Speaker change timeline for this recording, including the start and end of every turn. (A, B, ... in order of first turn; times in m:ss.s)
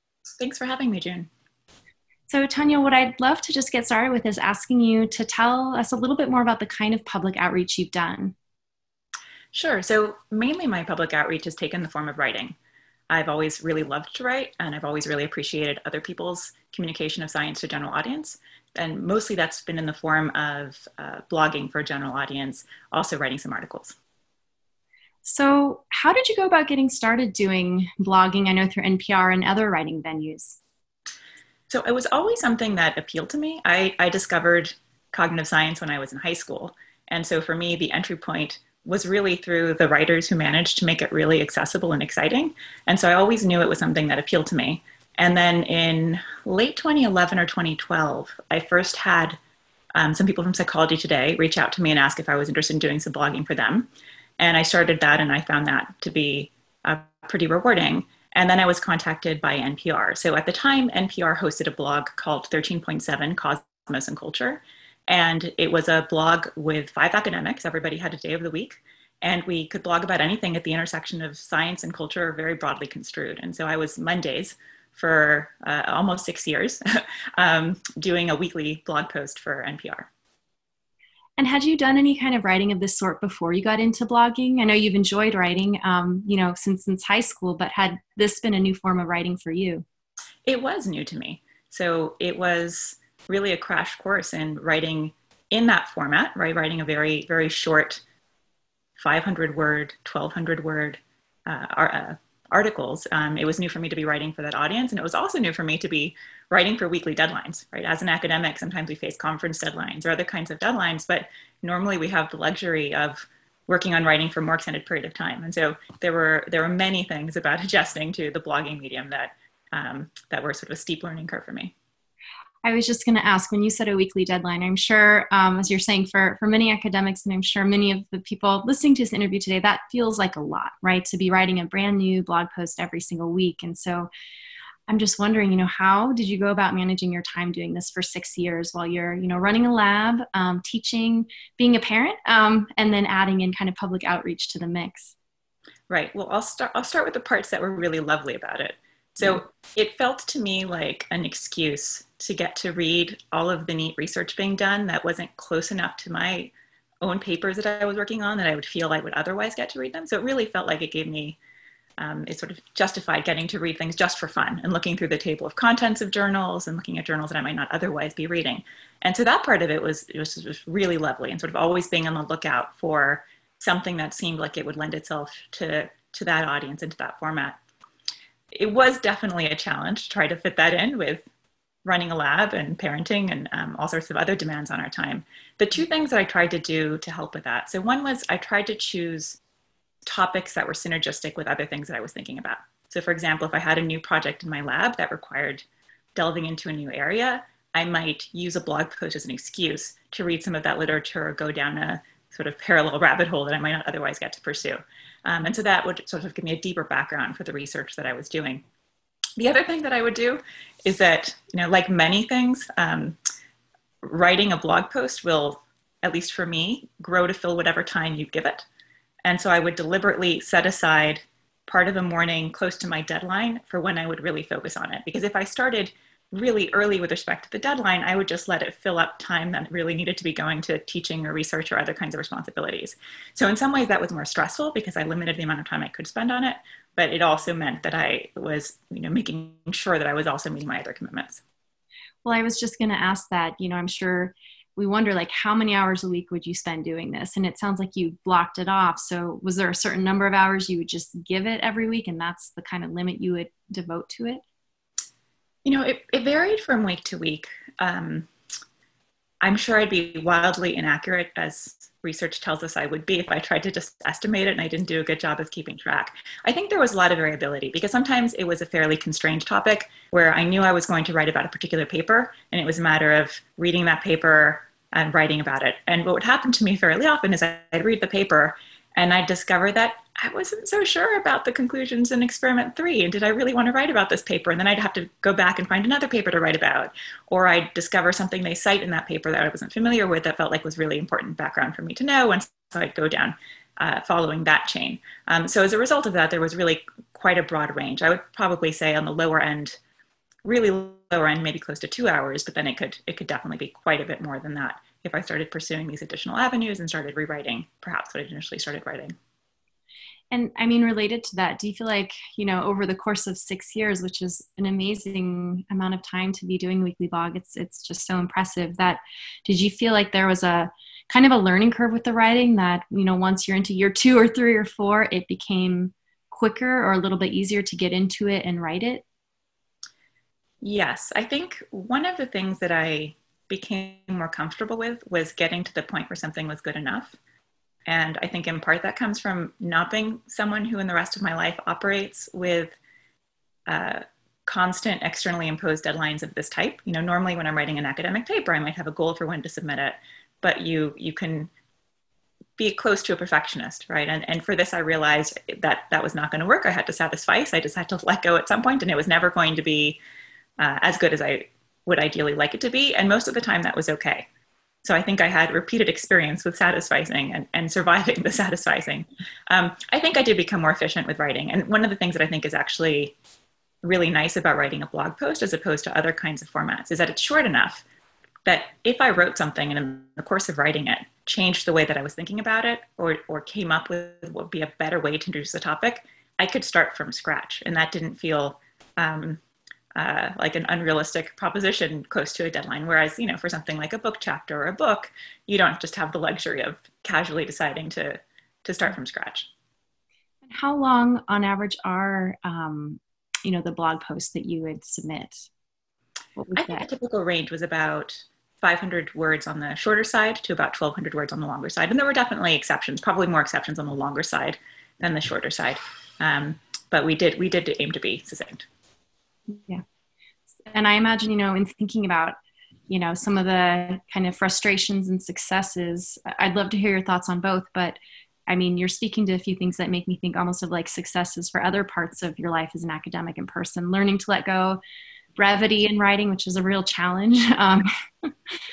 0:00.4-0:01.3 A
0:02.3-0:08.3 B
0:09.5-0:12.6 A
0:13.1-0:24.0 A
0:25.2-0:30.6 B
0:31.7-0:49.4 A
0:50.0-1:20.1 A
1:21.4-1:29.8 B
1:30.5-1:38.0 A
1:39.0-2:01.7 A
2:02.6-2:14.1 B
2:14.9-2:25.2 B
2:25.9-2:41.4 A
2:42.0-2:57.6 A
2:58.5-3:01.3 A
3:01.8-3:09.4 A
3:10.1-3:28.6 A
3:29.4-3:33.2 A
3:34.0-3:38.7 A
3:39.2-4:01.4 A
4:02.2-4:14.4 B
4:15.6-4:18.3 A
4:19.4-4:59.8 A
5:00.4-5:09.1 A
5:10.3-5:29.0 B
5:30.6-5:37.2 A
5:37.9-5:42.8 A
5:43.7-5:51.5 A
5:52.6-6:00.0 A
6:00.6-6:04.3 A
6:04.8-6:13.2 A
6:13.8-6:17.8 A
6:18.5-6:29.4 A
6:30.0-6:39.5 A
6:40.4-6:45.5 B
6:46.4-6:46.9 B
6:46.6-6:58.7 A
6:59.5-6:59.8 B
7:00.7-7:02.4 B
7:02.9-7:14.8 B
7:15.4-7:18.5 B